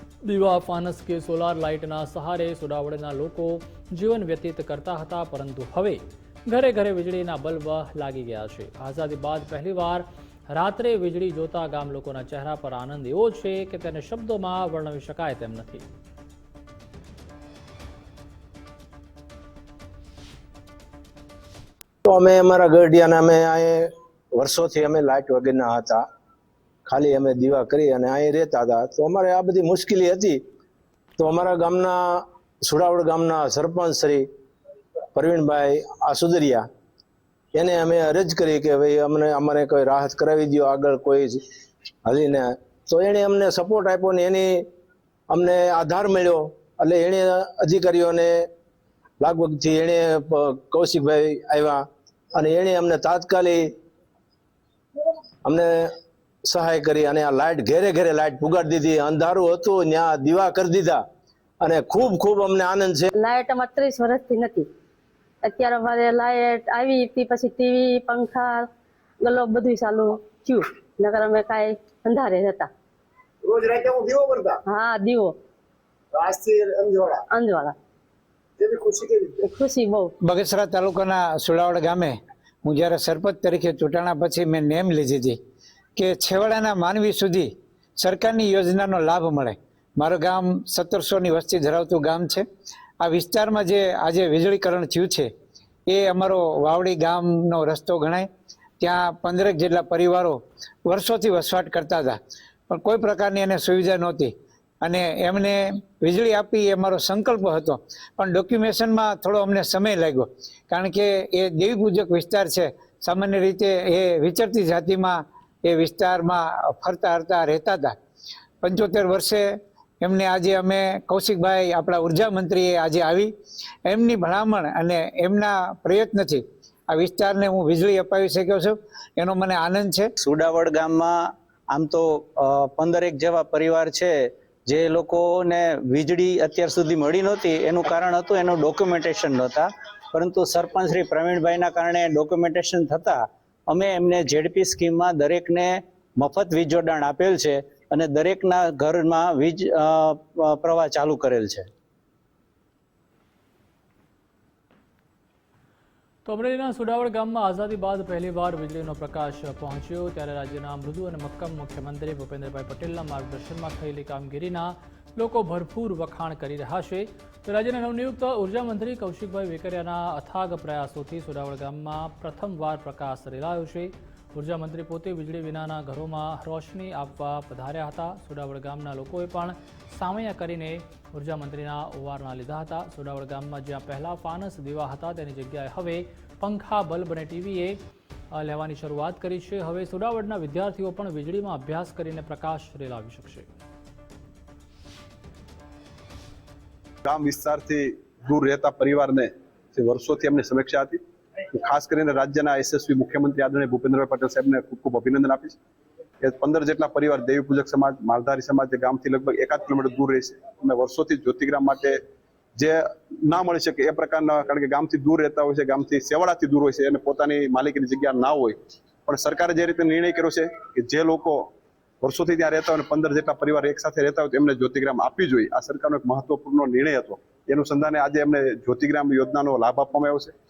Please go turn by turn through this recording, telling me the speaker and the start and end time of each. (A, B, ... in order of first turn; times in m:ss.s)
0:00.2-0:15.8 A
0:22.0-0:26.0 B
0:26.9-0:30.4 B
0:31.2-0:34.2 B
0:35.2-0:36.6 B
0:37.5-0:41.4 B
0:42.1-0:44.6 B
0:45.3-0:48.3 B
0:49.2-0:53.7 B
0:55.4-0:55.9 B
0:56.5-1:01.0 B
1:01.6-1:03.1 B
1:03.2-1:04.7 C
1:05.4-1:08.6 C
1:09.2-1:12.7 C
1:13.4-1:14.6 D
1:14.7-1:15.4 C
1:16.1-1:17.2 D
1:17.3-1:17.8 C
1:18.6-1:19.4 D
1:19.4-1:20.1 C
1:20.2-1:25.4 E
1:26.0-1:32.4 E
1:33.0-1:35.3 E
1:35.9-1:38.3 E
1:38.8-1:42.2 E
1:42.7-1:58.0 E
1:58.6-1:59.5 E
2:00.0-2:03.3 E
2:03.8-2:10.1 E
2:10.2-2:31.7 F
2:36.2-3:07.8 A
3:08.3-3:13.5 A
3:17.0-3:21.0 G
3:21.5-3:25.6 G
3:26.2-3:32.0 G
3:32.6-3:41.5 G
3:42.0-3:50.3 G